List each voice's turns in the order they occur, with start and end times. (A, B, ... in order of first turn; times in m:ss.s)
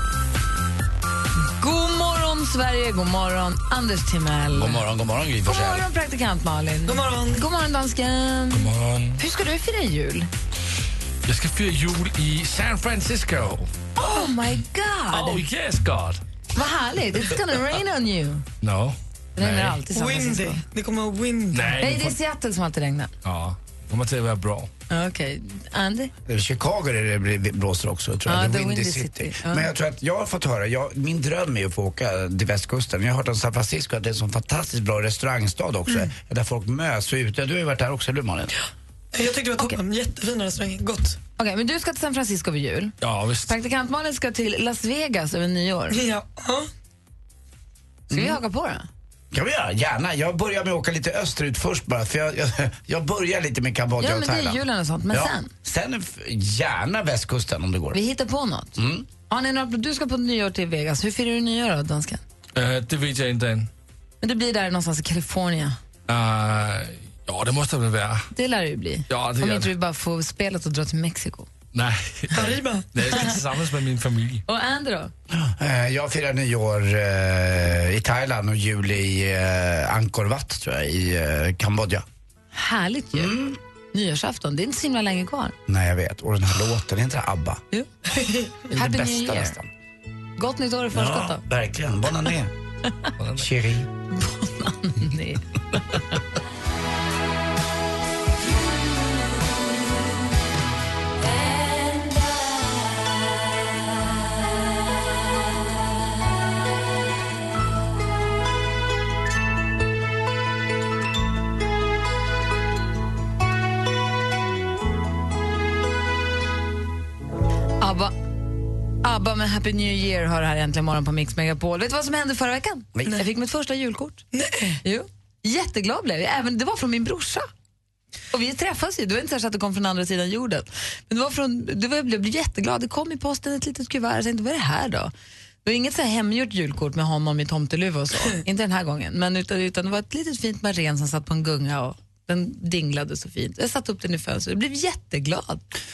0:01.6-0:04.8 A
0:04.5-0:05.9 B
0:05.4-0:10.3 A
0:06.9-0:07.4 C
0:08.5-0:09.2 D
0:11.2-0:13.7 D
0:14.0-0:15.4 A
0:15.1-0:16.2 D
0:16.5-0:18.4 A
0:18.6-0:19.8 D
0:19.4-0:20.6 A
0:19.9-0:21.8 C
0:21.5-0:22.2 D
0:21.8-0:23.1 A
0:23.2-0:24.7 D
0:24.9-0:26.1 A
0:26.2-0:38.5 B
0:28.3-0:29.7 A
0:39.1-0:41.2 C
0:41.4-0:42.9 A
0:43.0-0:43.5 D
0:43.4-0:46.0 A
0:45.9-0:46.7 C
0:48.1-0:48.9 A
0:48.1-0:48.4 B
0:49.3-0:58.0 B
0:54.0-0:55.5 A
0:57.9-1:02.2 A
0:58.8-0:59.1 B
1:02.6-1:03.7 D
1:04.2-1:05.8 A
1:06.1-1:08.3 D
1:08.3-1:11.5 A
1:09.1-1:09.7 D
1:11.7-1:14.4 D
1:12.3-1:13.2 C
1:14.5-1:15.1 A
1:15.3-1:22.0 B
1:22.5-1:23.4 A
1:23.1-1:23.6 B
1:23.9-1:25.6 A
1:25.7-1:27.6 B
1:28.2-1:28.5 C
1:28.7-1:29.7 B
1:28.7-1:29.6 A
1:30.4-1:31.4 A
1:30.9-1:32.5 B
1:33.3-1:33.9 B
1:34.1-1:35.8 A
1:57.8-1:58.1 A
1:59.0-2:04.2 A
2:04.3-2:04.8 C
2:04.8-2:07.5 A
2:08.3-2:15.1 A
2:15.6-2:25.6 A